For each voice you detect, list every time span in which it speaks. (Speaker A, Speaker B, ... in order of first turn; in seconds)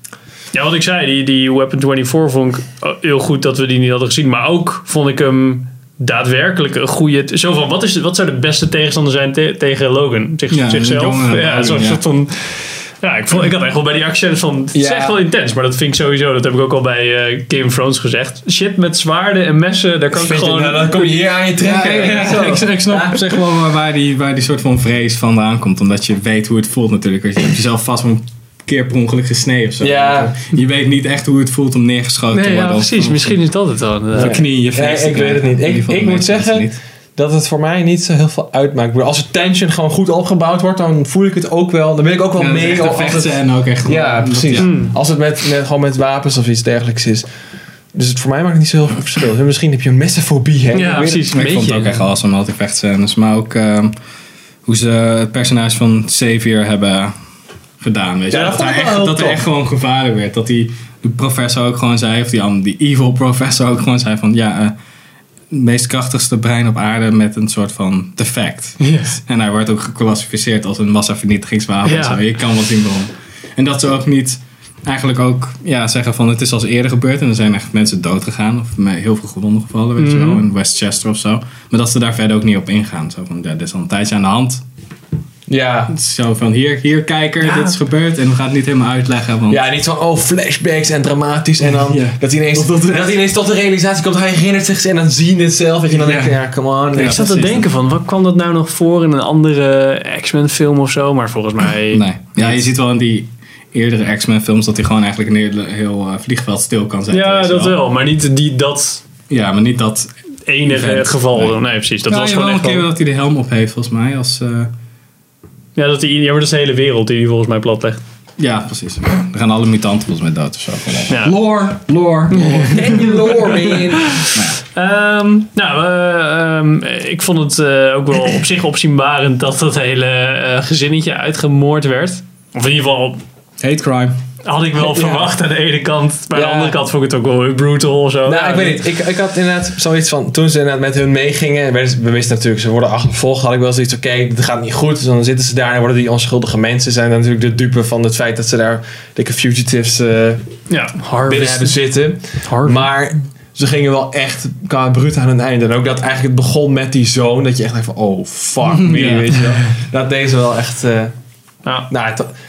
Speaker A: 0.5-21.2, 32.3-34.4, 44.6-44.9, 50.7-52.0, 58.3-59.4, 68.8-69.2, 71.8-72.2, 80.0-80.4, 87.4-87.8, 97.0-102.7, 107.1-109.0, 110.5-112.8, 115.7-118.0, 121.1-121.4, 122.3-133.2, 134.4-138.8, 150.7-151.8, 152.4-152.8
Speaker B: 10.5-12.0, 21.6-33.3, 34.1-36.8, 42.4-44.7, 51.3-53.9, 54.6-57.1, 57.8-64.7, 65.5-84.6, 85.9-89.6, 91.6-93.1, 95.9-96.4, 96.9-97.6, 101.9-107.8, 109.3-110.1, 110.7-111.6, 112.1-114.7, 118.4-123.2, 124.2-124.6, 133.6-134.2, 158.7-159.3
Speaker C: 14.7-15.2, 20.1-23.2, 29.8-30.3, 34.2-47.3, 47.9-51.2, 58.3-59.1, 85.5-85.9, 89.5-97.2, 122.5-124.1, 134.8-135.3, 136.3-136.8, 138.2-150.4, 151.3-161.1, 161.9-162.3